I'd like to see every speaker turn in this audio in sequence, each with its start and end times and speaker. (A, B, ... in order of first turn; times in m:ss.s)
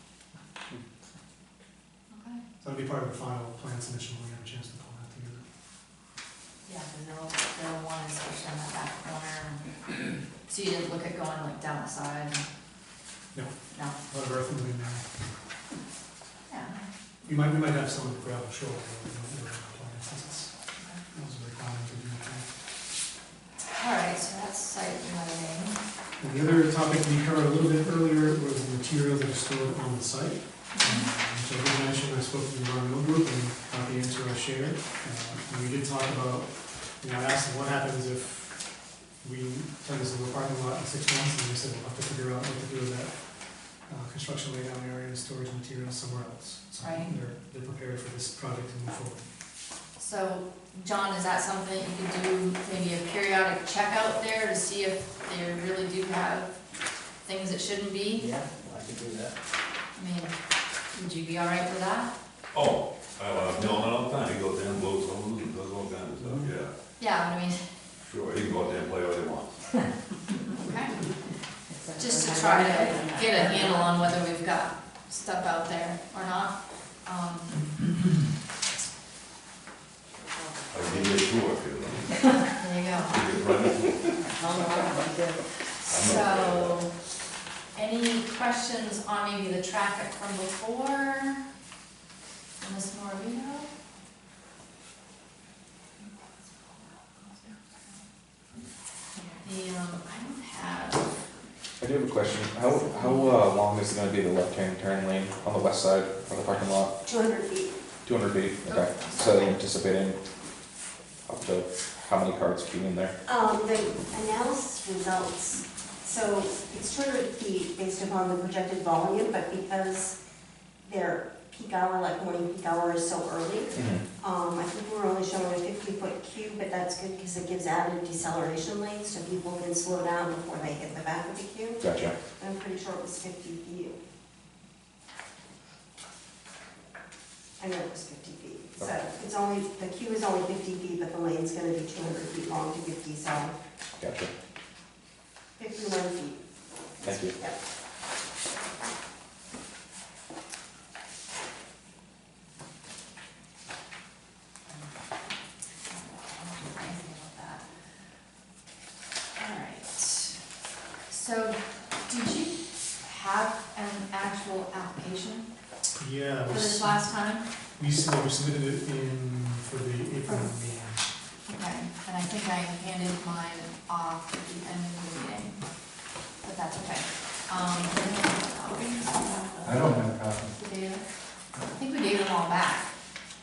0:02.1-0:02.4 A
0:02.6-0:05.4 B
0:06.6-0:12.5 A
0:14.0-0:15.1 B
0:16.5-0:16.8 A
0:17.2-0:20.5 B
0:21.1-0:22.4 B
0:23.6-0:25.8 A
0:26.2-0:38.6 B
0:30.7-0:31.1 A
0:39.2-0:43.2 B
0:43.9-0:49.2 B
0:46.8-0:47.1 A
0:50.0-0:56.5 A
0:57.2-0:58.3 A
1:00.0-1:00.4 A
1:00.9-1:02.1 A
1:02.5-1:06.7 C
1:07.0-1:07.6 A
1:08.0-1:09.6 C
1:10.6-1:11.1 A
1:11.9-1:13.8 D
1:12.0-1:17.9 A
1:20.7-1:22.4 C
1:22.3-1:23.3 A
1:23.1-1:24.4 C
1:24.2-1:25.1 A
1:24.4-1:25.2 D
1:25.8-1:26.9 A
1:25.9-1:26.8 C
1:27.8-1:31.4 A
1:32.6-1:33.7 A
1:36.8-1:38.0 A
1:39.4-1:41.2 A
1:41.8-1:46.9 E
1:47.0-1:47.8 F
1:48.0-1:50.2 E
1:48.6-1:49.6 A
1:51.2-1:53.1 E
1:53.2-2:00.2 F
2:00.8-2:11.8 F
2:03.8-2:04.0 E
2:11.8-2:12.2 E
2:12.4-2:14.0 F
2:17.6-2:23.5 F
2:24.0-2:24.3 E
2:25.6-2:26.4 F
2:27.0-2:27.6 F
2:27.0-2:27.4 E
2:35.8-2:37.6 A
2:39.4-2:40.4 A
2:41.1-2:45.5 A
2:46.0-2:47.0 B
2:46.5-2:47.4 A
2:47.8-2:51.1 B
2:51.5-2:55.6 A
2:56.4-3:00.0 A
2:59.6-3:00.5 D
3:00.6-3:01.0 A
3:01.6-3:02.9 A